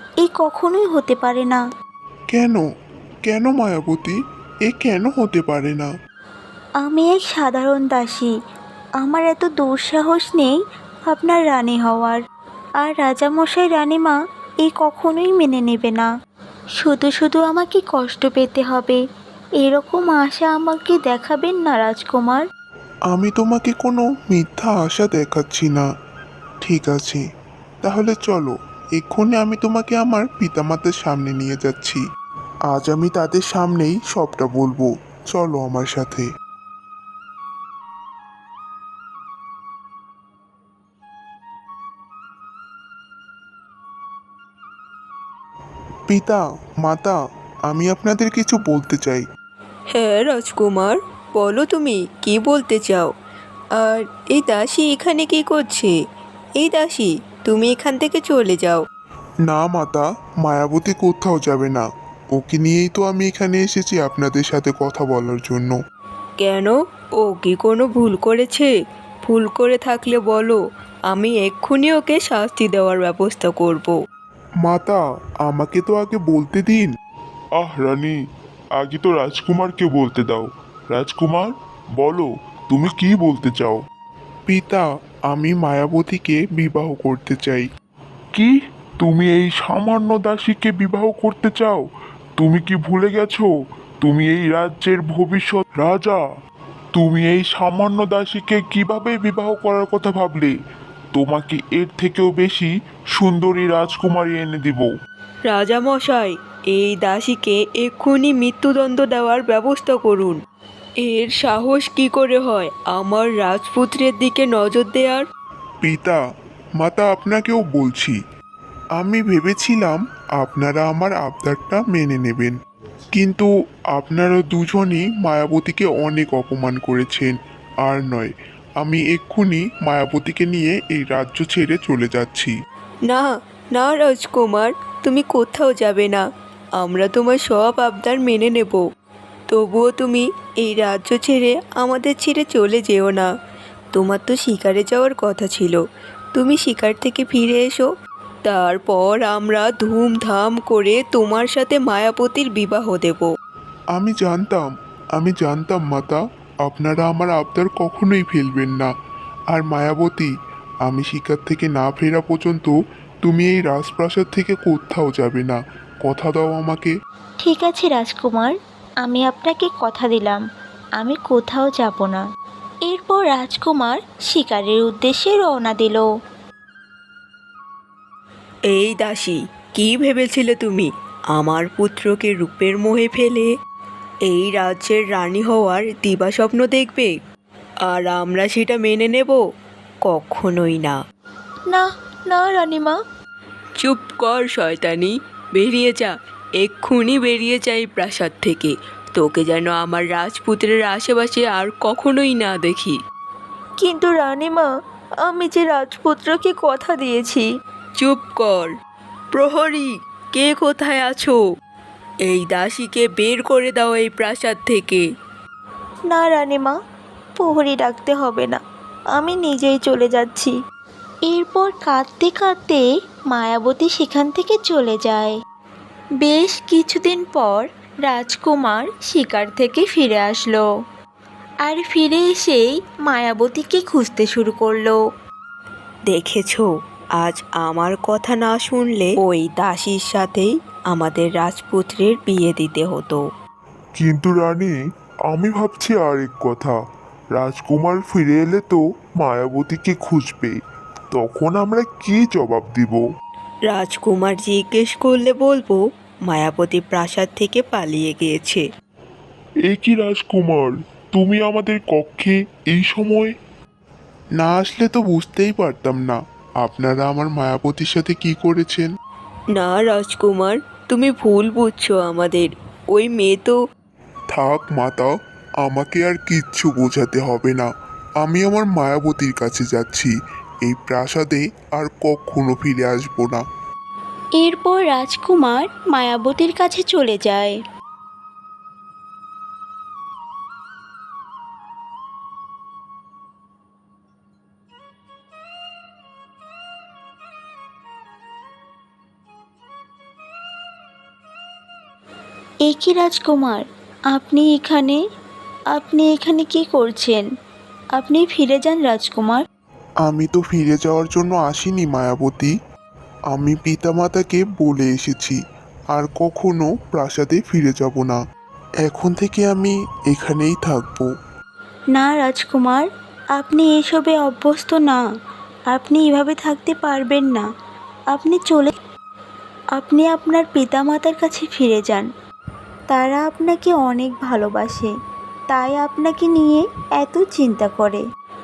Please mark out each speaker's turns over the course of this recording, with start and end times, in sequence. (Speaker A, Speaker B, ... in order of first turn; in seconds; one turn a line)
Speaker A: 0.2-1.6
Speaker B: 2.3-2.6
Speaker B: 3.3-5.9
Speaker A: 6.8-8.3
Speaker A: 9.0-10.6
Speaker A: 11.1-12.2
Speaker A: 12.8-16.1
Speaker A: 16.8-19.0
Speaker A: 19.6-22.5
Speaker B: 23.1-25.9
Speaker B: 26.6-27.2
Speaker B: 27.8-32.0
Speaker B: 32.7-36.3
Speaker B: 46.1-49.2
Speaker C: 49.9-53.1
Speaker C: 53.8-56.0
Speaker C: 56.6-58.8
Speaker B: 59.5-65.8
Speaker C: 66.4-68.7
Speaker C: 69.3-74.0
Speaker B: 74.6-76.9
Speaker D: 77.6-78.2
Speaker D: 78.8-83.8
Speaker B: 84.5-87.7
Speaker D: 88.3-91.8
Speaker D: 92.4-93.5
Speaker D: 94.0-96.2
Speaker D: 96.9-100.5
Speaker D: 101.2-104.9
Speaker C: 105.5-110.4
Speaker C: 111.0-115.3
Speaker B: 115.8-116.2
Speaker B: 116.8-118.2
Speaker B: 119.0-122.6
Speaker B: 123.1-132.5
Speaker C: 133.1-136.3
Speaker C: 136.8-138.9
Speaker C: 139.5-143.3
Speaker C: 143.9-145.8
Speaker C: 146.3-147.9
Speaker C: 148.4-153.3
Speaker B: 153.9-154.7
Speaker B: 155.2-158.9
Speaker B: 159.5-160.3
Speaker B: 160.9-166.9
Speaker A: 167.4-170.4
Speaker A: 171.0-172.3
Speaker A: 172.9-176.1
Speaker C: 178.7-183.5
Speaker C: 184.3-187.2
Speaker C: 187.9-189.4
Speaker C: 190.1-191.0
Speaker A: 191.7-193.0
Speaker C: 193.8-203.0
Speaker A: 203.8-204.7
Speaker A: 205.2-207.5
Speaker C: 208.0-208.7
Speaker C: 209.3-211.4
Speaker C: 212.2-215.1
Speaker A: 216.1-216.8
Speaker A: 217.4-218.6
Speaker A: 219.2-220.6
Speaker A: 221.3-225.4
Speaker A: 226.2-230.7
Speaker A: 231.6-235.0
Speaker C: 236.1-243.2
Speaker D: 244.0-244.7
Speaker D: 245.3-246.8
Speaker D: 247.4-250.6
Speaker D: 251.1-253.0
Speaker C: 253.7-258.6
Speaker D: 259.7-263.3
Speaker B: 264.4-268.9
Speaker C: 269.6-273.6
Speaker B: 274.3-277.7
Speaker B: 278.2-280.1
Speaker B: 280.6-283.4
Speaker A: 284.4-287.6
Speaker A: 302.6-305.0
Speaker A: 305.7-307.3
Speaker A: 308.0-309.4
Speaker B: 310.1-312.5
Speaker B: 313.3-315.4
Speaker B: 315.9-318.2
Speaker B: 318.8-321.1
Speaker A: 321.9-325.0
Speaker A: 325.7-327.5
Speaker A: 328.1-328.8
Speaker A: 329.8-332.1
Speaker A: 332.9-334.9
Speaker A: 335.5-338.0